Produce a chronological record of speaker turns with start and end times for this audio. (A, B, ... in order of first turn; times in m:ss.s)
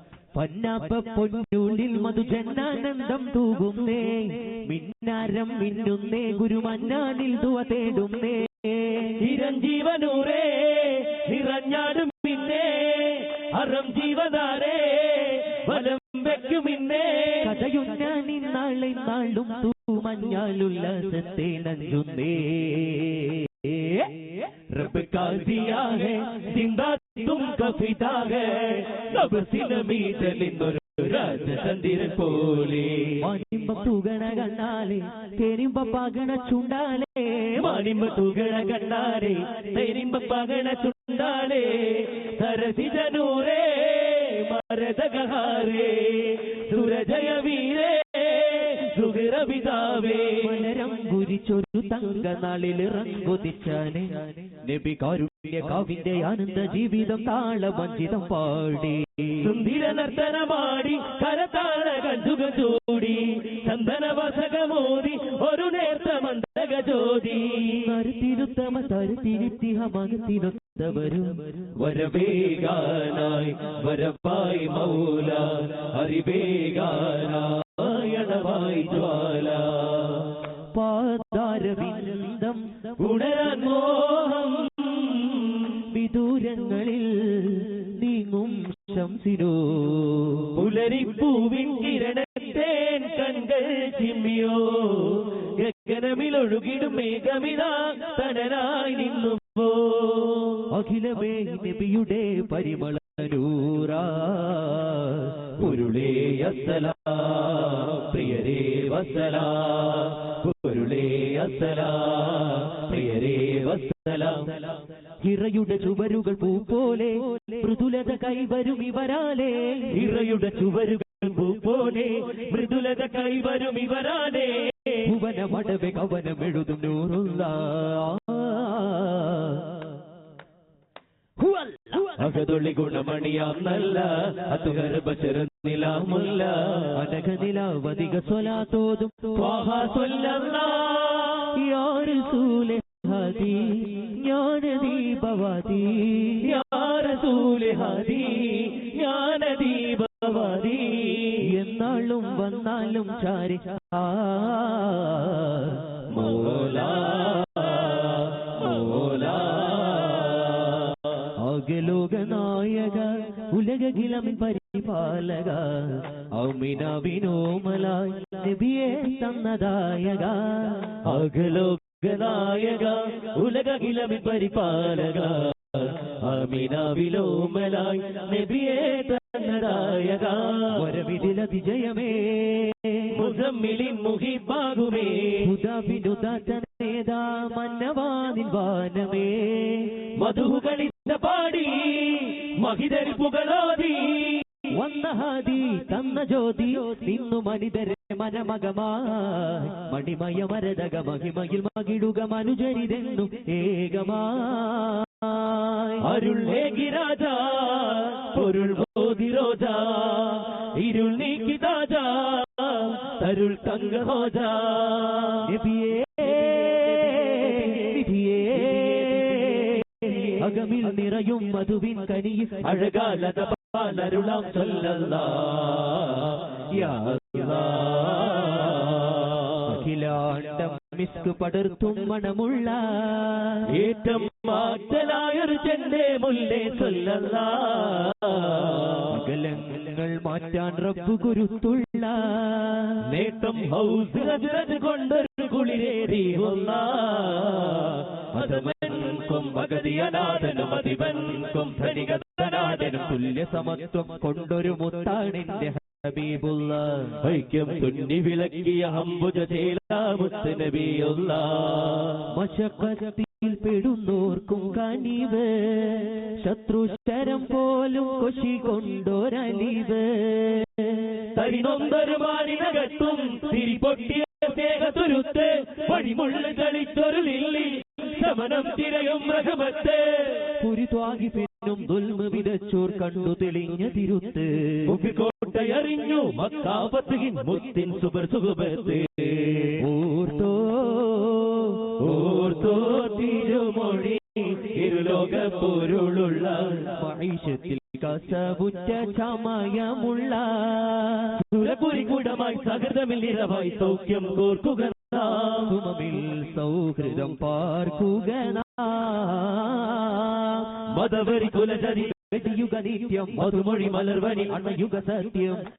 0:00.3-0:09.2 A
0:09.2-0:17.5 B
0:17.4-0:24.1 A
0:24.7-0:33.3 B
0:33.2-0:37.7 A
0:37.6-0:50.6 B
0:50.4-0:59.4 A
0:59.4-1:07.9 B
1:07.8-1:11.5 A
1:11.7-1:20.4 B
1:20.7-1:22.6 A
1:23.0-1:25.8 B
1:25.8-1:30.5 A
1:30.5-1:40.7 B
1:40.7-1:45.7 A
1:45.6-1:54.8 B
1:55.2-1:59.9 A
1:59.9-2:05.1 B
2:05.0-2:09.8 A
2:11.4-2:12.1 A
2:12.1-2:17.0 B
2:16.9-2:19.4 A
2:19.3-2:21.5 B
2:21.5-2:26.5 A
2:26.4-2:31.4 B
2:31.4-2:36.5 A
2:36.1-2:41.1 B
2:41.4-2:51.0 A
2:51.0-3:00.8 B
3:00.7-3:03.1 A
3:03.1-3:05.5 B
3:05.4-3:09.9 A
3:10.2-3:14.5 B
3:14.7-3:26.0 A
3:26.0-3:35.5 B
3:35.4-3:42.7 A
3:42.6-3:49.6 B
3:46.7-3:47.3 A
3:49.6-3:53.7 A
3:53.6-3:59.1 B
3:59.1-4:03.0 A
4:03.0-4:13.0 B
4:12.4-4:17.2 A
4:17.2-4:22.3 B
4:22.3-4:31.2 A
4:31.3-4:40.5 B
4:40.6-4:44.9 A
4:44.8-4:49.8 B
4:49.8-4:51.9 A
4:52.0-4:56.9 B
4:56.8-5:01.4 A
5:01.4-5:05.7 B
5:05.7-5:10.7 A
5:10.9-5:12.2 B
5:12.2-5:15.6 A
5:13.3-5:14.6 B